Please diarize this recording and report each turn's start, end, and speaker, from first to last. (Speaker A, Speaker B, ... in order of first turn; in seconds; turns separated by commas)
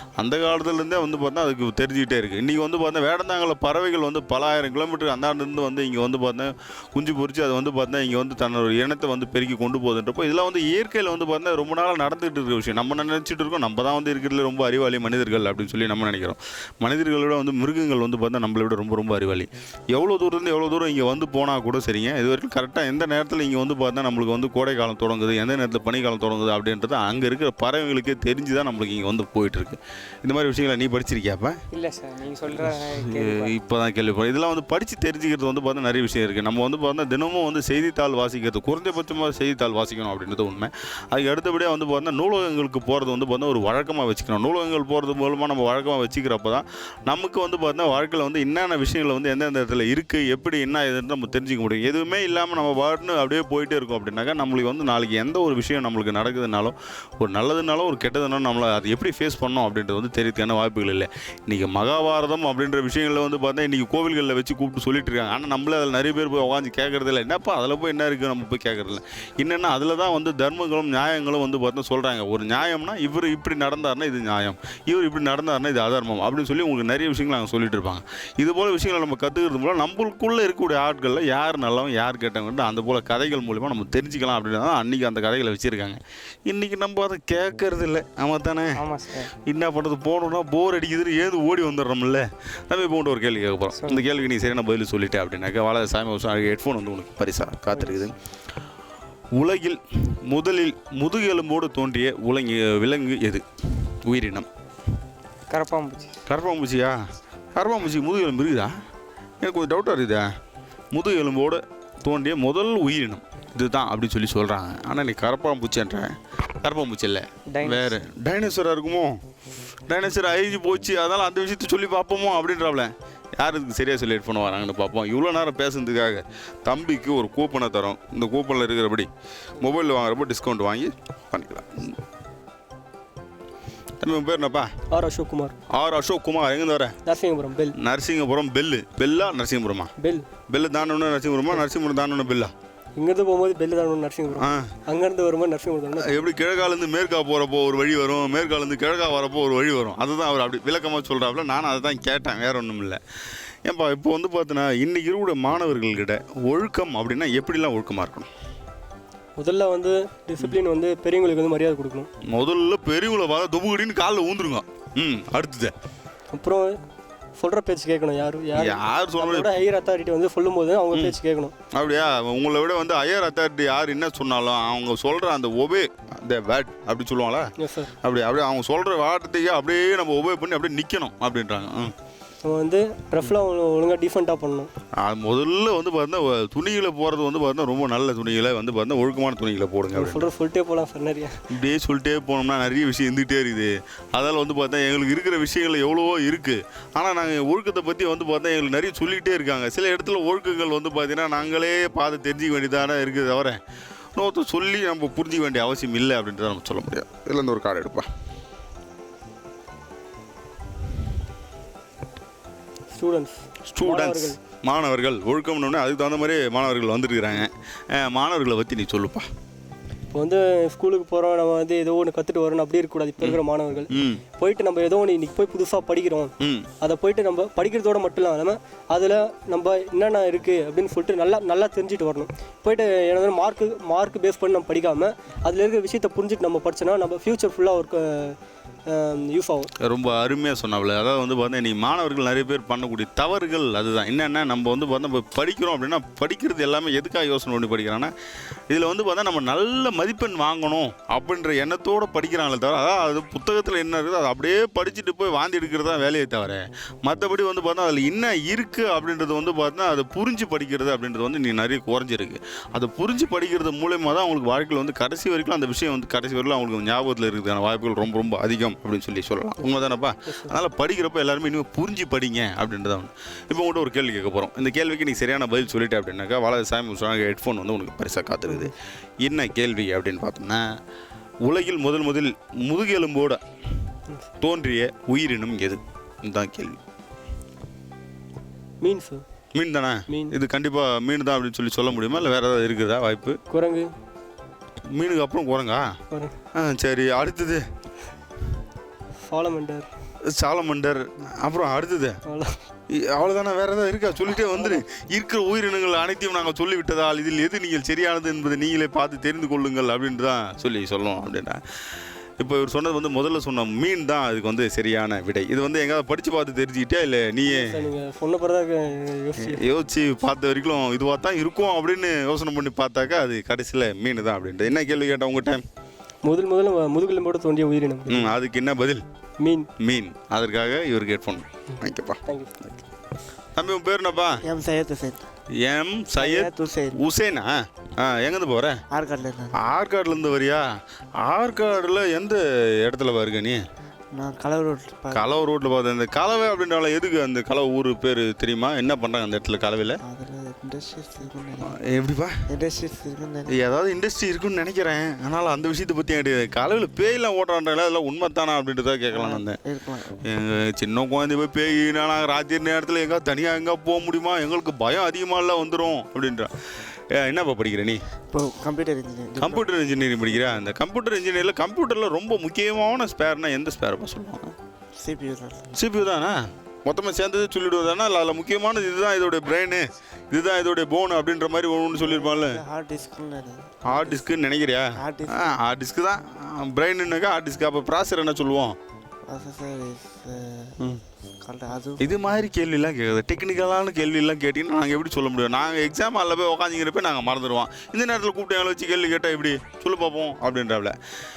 Speaker A: 0.2-31.6, Speaker B: 31.7-33.5, Speaker A: 32.5-88.8, Speaker B: 88.8-89.3, Speaker A: 89.4-98.1, Speaker B: 93.7-94.1, Speaker B: 97.7-98.1, Speaker A: 99.3-104.5, Speaker B: 105.5-106.2, Speaker A: 106.3-107.0, Speaker A: 107.6-108.7, Speaker A: 109.4-110.3, Speaker A: 110.9-119.2, Speaker B: 117.5-118.0, Speaker A: 119.9-132.0, Speaker A: 134.0-134.7, Speaker C: 134.9-135.6, Speaker A: 135.7-136.9, Speaker C: 137.1-137.8, Speaker A: 137.8-139.9, Speaker C: 140.0-140.3, Speaker A: 140.5-142.5, Speaker C: 143.0-146.3, Speaker A: 144.3-144.7, Speaker A: 146.0-153.0, Speaker A: 153.7-158.3, Speaker C: 159.4-162.1, Speaker A: 162.3-165.7, Speaker C: 166.3-166.7, Speaker C: 167.4-171.5, Speaker A: 168.5-169.5, Speaker A: 170.9-171.2, Speaker A: 171.7-177.5, Speaker C: 177.6-177.9, Speaker A: 178.0-181.9, Speaker C: 182.4-184.7, Speaker A: 185.0-190.3, Speaker C: 189.9-191.4, Speaker A: 191.5-203.6, Speaker A: 204.2-208.1, Speaker C: 212.9-214.4, Speaker A: 213.7-219.3, Speaker C: 220.1-239.7, Speaker A: 223.2-224.2, Speaker A: 226.4-226.7, Speaker A: 239.8-248.1, Speaker A: 248.7-280.7, Speaker C: 270.3-270.6, Speaker A: 281.4-283.4, Speaker A: 284.4-286.8, Speaker C: 288.8-289.2, Speaker A: 289.6-293.4, Speaker C: 290.1-290.4, Speaker C: 293.5-293.9, Speaker A: 294.9-295.9, Speaker C: 296.1-296.4, Speaker A: 296.6-297.6, Speaker C: 299.2-299.9, Speaker A: 300.3-302.2, Speaker C: 302.3-302.6, Speaker A: 302.9-311.6, Speaker C: 304.6-304.8, Speaker A: 312.4-317.9, Speaker C: 317.5-319.7, Speaker A: 319.4-325.6, Speaker C: 326.2-328.4, Speaker A: 328.1-329.0, Speaker C: 329.4-329.7, Speaker A: 329.8-332.8, Speaker C: 332.3-332.6, Speaker A: 333.6-334.4, Speaker D: 334.4-335.2, Speaker A: 335.6-338.8, Speaker D: 336.2-337.0, Speaker D: 338.9-339.6, Speaker A: 339.6-340.6, Speaker A: 341.2-343.6, Speaker D: 344.1-345.4, Speaker A: 345.1-350.0, Speaker D: 350.0-351.8, Speaker A: 351.7-352.4, Speaker D: 352.5-353.6, Speaker A: 353.5-359.6, Speaker D: 359.1-360.2, Speaker A: 360.3-366.5, Speaker A: 367.1-368.0, Speaker D: 368.3-369.8, Speaker A: 369.4-374.6, Speaker D: 370.3-370.6, Speaker D: 375.0-375.7, Speaker A: 375.8-382.6, Speaker D: 381.9-384.3, Speaker A: 383.9-388.8, Speaker D: 385.0-385.6, Speaker D: 389.3-390.8, Speaker D: 391.4-392.2, Speaker A: 392.0-401.0